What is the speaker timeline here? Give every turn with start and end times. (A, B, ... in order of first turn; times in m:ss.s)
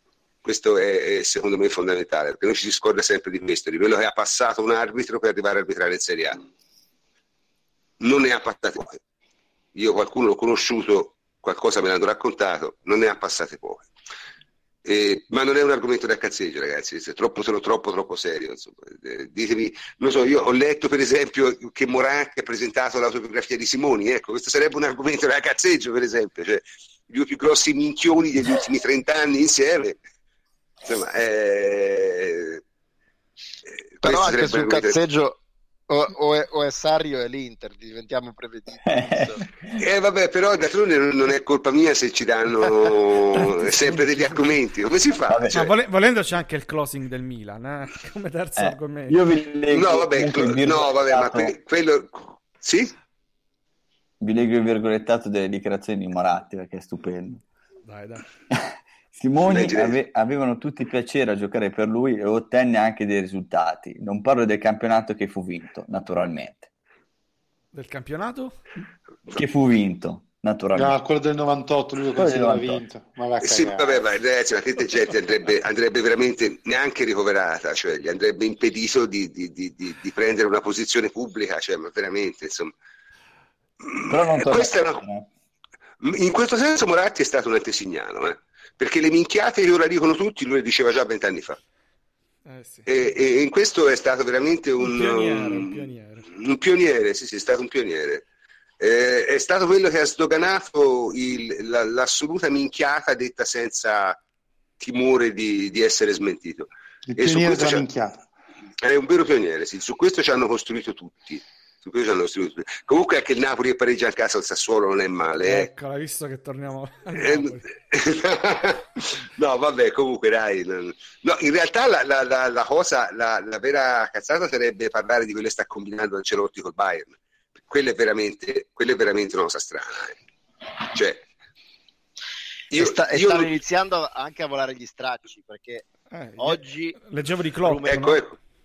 0:00.4-0:06.4 A
0:08.0-0:09.0 A
0:09.8-0:13.9 A
0:14.8-0:30.0 A
0:30.8-0:32.6 A
0:34.0-0:35.0 A
0:34.0-0:39.4 B
0:38.8-0:39.8 C
0:39.8-0:45.5 A
0:43.4-0:44.6 D
0:45.3-0:45.7 C
0:45.5-0:49.2 D
0:48.6-0:51.5 C
0:49.7-0:52.9 A
0:54.2-0:57.4 C
0:57.9-0:58.2 D
0:58.5-1:06.7 C
0:59.4-1:00.0 A
1:07.7-1:08.6 D
1:09.3-1:11.0 C
1:10.8-1:14.0 E
1:12.2-1:12.8 C
1:13.4-1:22.7 A
1:23.8-1:25.0 A
1:24.1-1:25.3 C
1:26.0-1:31.6 A
1:32.4-1:33.1 D
1:32.9-1:38.2 A
1:34.8-1:36.3 D
1:38.8-1:44.2 A
1:44.8-1:47.8 A
1:47.1-1:48.2 E
1:48.8-1:55.7 A
1:55.4-1:57.6 D
1:57.2-2:10.2 A
2:10.8-2:11.2 A
2:12.7-2:13.5 A
2:12.7-2:17.0 B
2:16.1-2:18.2 D
2:17.6-2:18.1 B
2:17.8-2:18.4 A